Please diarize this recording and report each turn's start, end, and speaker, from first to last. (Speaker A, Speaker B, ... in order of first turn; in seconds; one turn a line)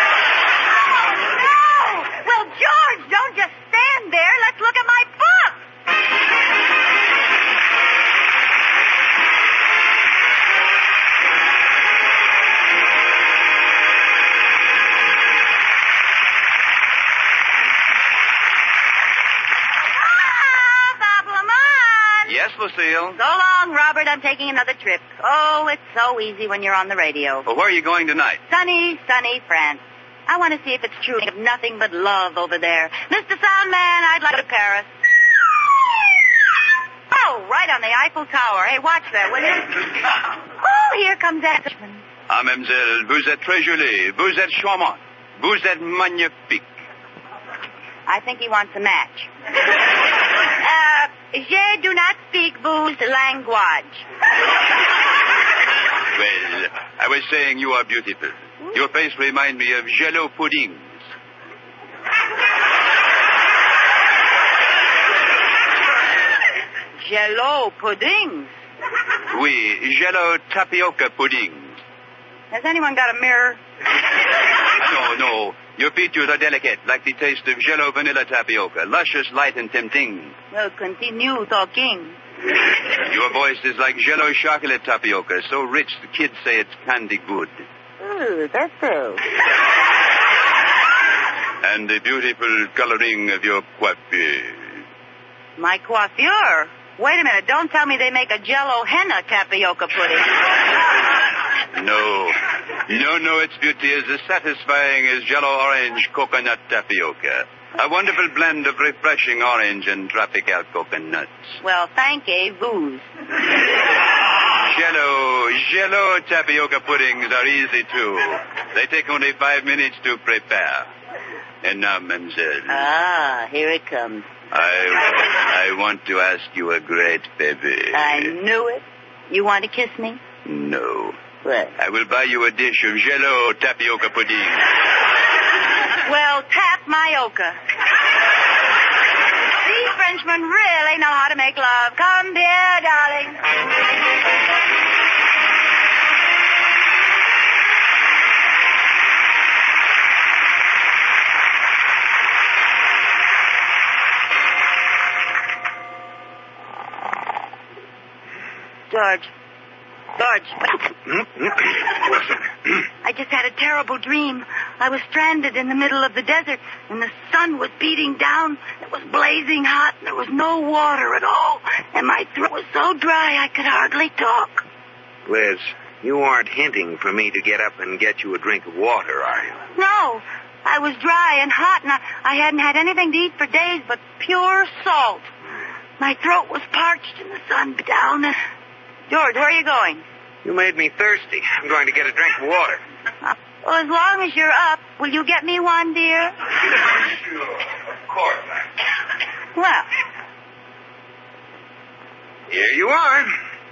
Speaker A: 1.1-5.6
Speaker A: 19.9-22.3
Speaker B: 22.3-23.2
Speaker A: 23.1-27.4
Speaker B: 27.4-28.4
Speaker A: 28.5-34.9
Speaker A: 37.1-39.9
Speaker A: 40.6-42.0
Speaker B: 42.3-46.6
Speaker A: 48.1-49.3
Speaker A: 50.4-54.0
Speaker B: 56.1-61.0
Speaker A: 67.0-68.5
Speaker B: 69.3-71.8
Speaker A: 72.5-73.6
Speaker B: 74.7-80.4
Speaker A: 80.5-82.2
Speaker B: 83.0-87.6
Speaker A: 88.0-89.2
Speaker B: 91.6-94.8
Speaker A: 95.6-100.5
Speaker B: 101.7-111.3
Speaker A: 111.6-113.1
Speaker B: 114.5-120.9
Speaker B: 121.6-122.9
Speaker A: 122.7-124.3
Speaker B: 124.5-128.3
Speaker A: 127.9-130.2
Speaker B: 130.4-131.2
Speaker A: 131.4-131.7
Speaker B: 131.8-134.7
Speaker A: 136.0-137.6
Speaker A: 139.6-143.4
Speaker A: 158.9-159.3
Speaker A: 160.2-160.7
Speaker C: 161.1-162.3
Speaker A: 163.0-174.6
Speaker C: 175.2-179.6
Speaker A: 179.8-185.3
Speaker A: 186.0-188.4
Speaker A: 189.1-190.0
Speaker C: 190.4-192.8
Speaker A: 193.2-196.3
Speaker A: 199.5-199.9
Speaker C: 202.5-203.3